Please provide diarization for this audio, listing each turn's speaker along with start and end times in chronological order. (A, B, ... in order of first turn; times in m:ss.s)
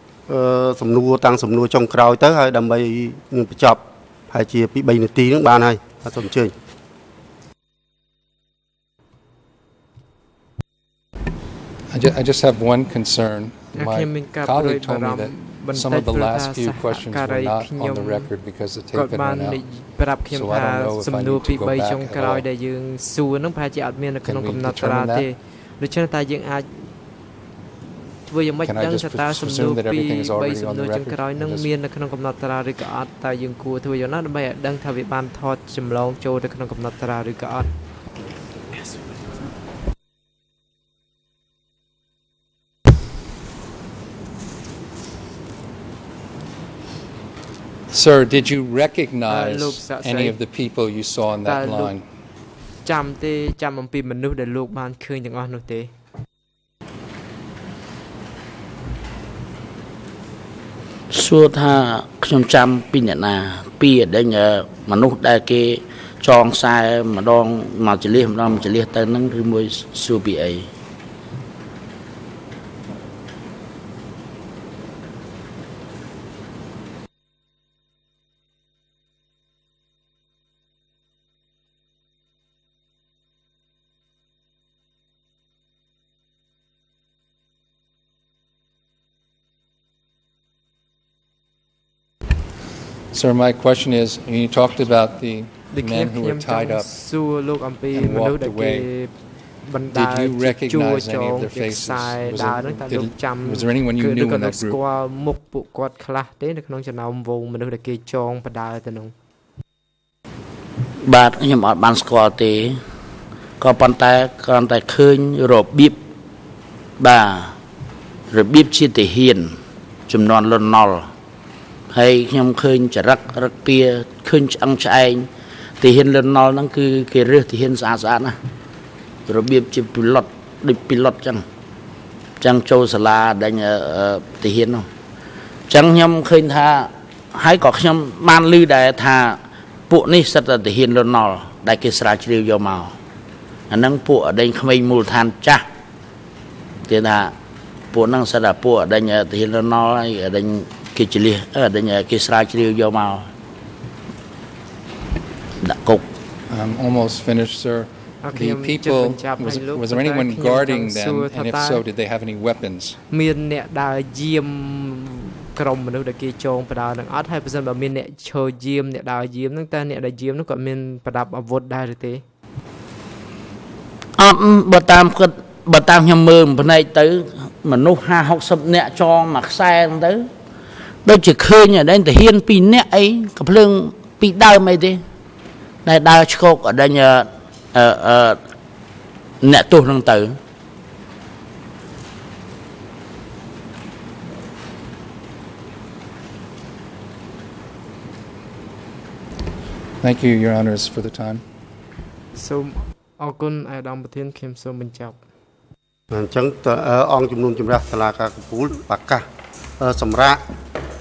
0:00.3-0:06.5 A
0:11.9-0:19.6 B
0:13.7-0:18.3 C
0:18.9-0:26.9 C
0:20.3-0:22.4 B
0:24.2-0:25.3 B
0:28.2-0:37.7 C
0:28.6-0:31.7 B
0:47.9-0:52.0 B
0:49.3-0:50.4 C
0:51.4-0:51.9 C
0:52.8-0:55.9 C
1:01.1-1:10.7 D
1:33.1-1:36.9 B
1:35.7-1:39.1 C
1:37.9-1:38.9 B
1:39.6-1:49.1 C
1:39.9-1:44.8 B
1:51.0-1:52.8 D
1:53.6-1:56.0 D
1:57.0-1:57.5 D
1:58.3-1:59.5 D
2:00.1-2:01.1 D
2:01.9-2:05.3 D
2:05.8-2:08.3 D
2:09.3-2:11.4 D
2:12.4-2:14.8 D
2:15.7-2:22.9 D
2:23.7-2:25.6 D
2:26.8-2:27.3 D
2:27.9-2:33.3 D
2:35.6-2:36.0 D
2:36.5-2:43.0 B
2:38.2-2:41.8 C
2:43.1-2:52.2 C
2:54.2-3:00.3 D
3:01.0-3:05.0 D
3:05.8-3:08.4 D
3:09.4-3:10.4 D
3:20.0-3:21.4 B
3:22.3-3:25.2 C
3:26.1-3:29.2 A
3:29.8-3:30.4 A